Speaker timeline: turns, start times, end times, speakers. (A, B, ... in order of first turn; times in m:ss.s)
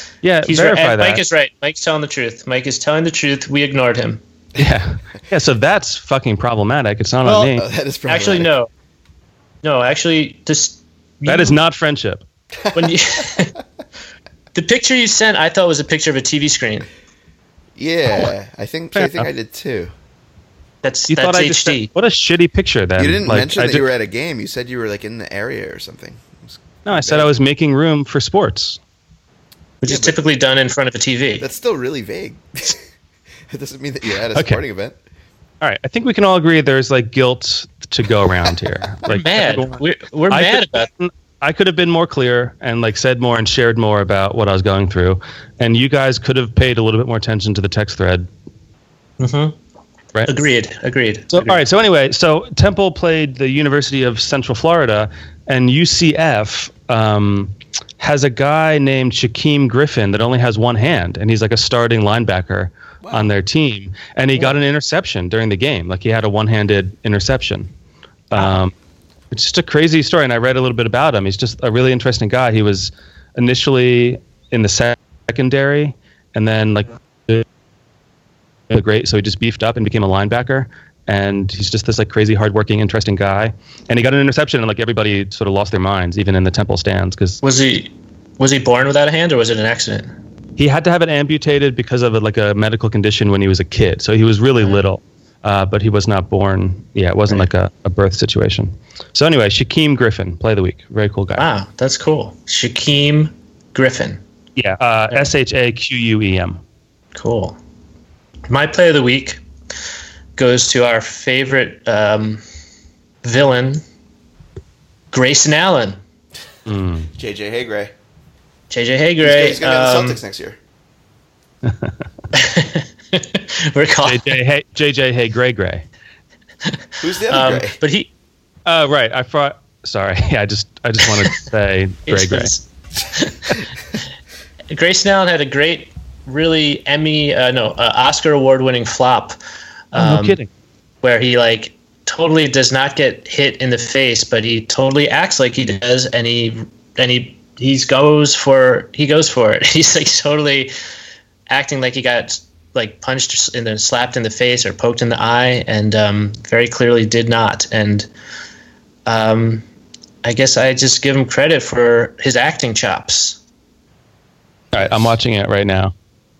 0:00.2-0:01.2 A
0:00.4-0:04.2 B
0:04.6-0:07.6 A
0:07.4-0:08.5 C
0:08.0-0:08.7 B
0:09.6-0:11.6 B
0:11.3-0:12.2 A
0:12.6-0:13.2 C
0:12.7-0:13.5 B
0:14.5-0:16.9 B
0:17.8-0:19.9 C
0:18.9-0:19.3 A
0:20.8-0:21.9 B
0:21.1-0:23.8 A
0:23.0-0:27.3 C
0:26.8-0:28.8 A
0:29.8-0:31.4 B
0:29.8-0:30.2 C
0:31.4-0:32.8 C
0:33.5-0:35.0 C
0:34.3-0:34.6 A
0:35.6-0:48.3 A
0:39.1-0:40.9 B
0:49.2-0:49.6 B
0:50.2-0:51.6 B
0:51.3-1:07.7 A
1:03.0-1:03.3 C
1:08.3-1:08.7 A
1:09.3-1:17.4 A
1:18.7-1:27.4 A
1:27.4-1:30.1 B
1:30.6-1:41.4 A
1:41.4-1:44.2 B
1:44.6-1:46.6 A
1:47.1-1:47.6 B
1:48.5-1:49.4 B
1:50.4-1:52.4 B
1:53.2-1:53.8 B
1:55.1-1:56.0 B
1:56.6-1:57.1 A
1:57.1-1:57.9 C
1:58.7-2:00.2 B
1:59.2-2:00.6 C
2:01.6-2:01.9 A
2:02.3-2:04.3 B
2:04.0-2:05.8 A
2:06.6-2:08.1 B
2:07.0-2:07.8 C
2:08.6-2:12.5 A
2:12.1-2:13.6 B
2:14.7-2:19.4 B
2:19.9-2:20.4 B
2:19.9-2:20.5 A
2:21.0-2:30.7 B
2:31.5-2:38.1 B
2:39.0-2:39.6 B
2:40.2-2:43.4 B
2:44.7-2:45.2 C
2:44.7-2:45.9 A